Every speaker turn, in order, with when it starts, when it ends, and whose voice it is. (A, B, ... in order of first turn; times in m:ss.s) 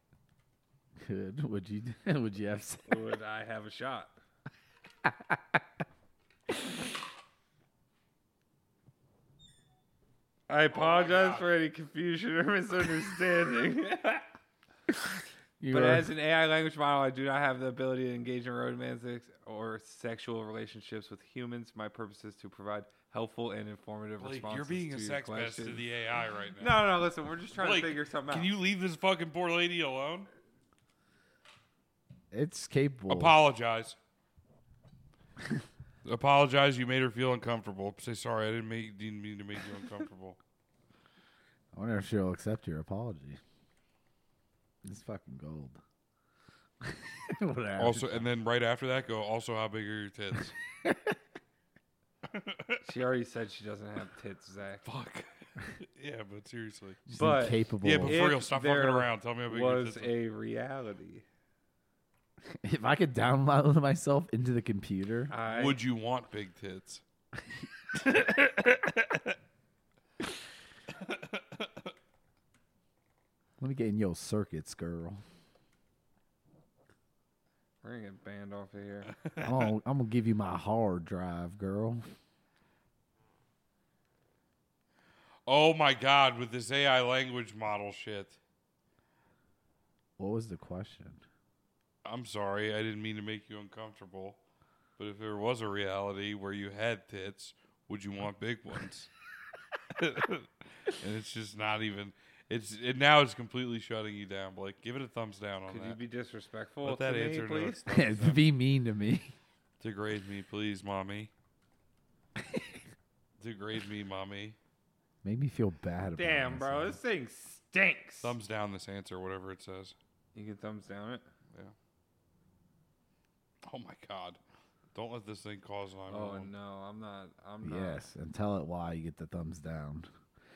0:01.0-0:02.9 A
0:02.9-0:04.2 B
0:05.0-0:05.6 A
0:10.5-0:14.3 B
0:10.7-0:11.5 C
0:14.9-0:16.1 A
0:15.7-0:25.8 B
0:24.2-0:30.3 C
0:26.6-0:28.5 B
0:32.3-0:33.4 A
0:33.1-0:34.0 C
0:36.0-0:40.4 C
0:41.7-0:43.4 A
0:44.8-0:45.8 A
0:46.8-0:48.3 A
0:47.8-0:50.6 C
0:50.8-0:51.2 A
0:52.3-0:52.8 C
0:52.8-0:54.9 B
0:54.8-0:57.1 C
0:57.1-0:58.2 A
0:57.1-1:01.2 B
0:57.8-1:00.2 C
1:02.5-1:05.3 A
1:05.3-1:05.8 B
1:05.5-1:07.0 C
1:08.0-1:09.2 C
1:11.0-1:11.6 C
1:13.6-1:15.2 A
1:17.8-1:19.1 B
1:19.2-1:19.7 C
1:19.4-1:22.0 A
1:25.5-1:28.4 C
1:30.2-1:31.2 A
1:32.0-1:34.4 C
1:35.0-1:39.1 C
1:40.0-1:46.0 C
1:45.7-1:47.8 B
1:46.8-1:48.4 C
1:47.9-1:49.3 A
1:49.8-1:51.3 C
1:52.5-1:52.8 A
1:53.4-1:54.6 C
1:55.2-1:57.0 A
1:56.2-1:58.4 B
1:58.2-2:00.0 C
2:00.4-2:01.3 B
2:03.6-2:04.4 C
2:04.9-2:06.5 C
2:06.1-2:08.1 B
2:07.6-2:10.1 A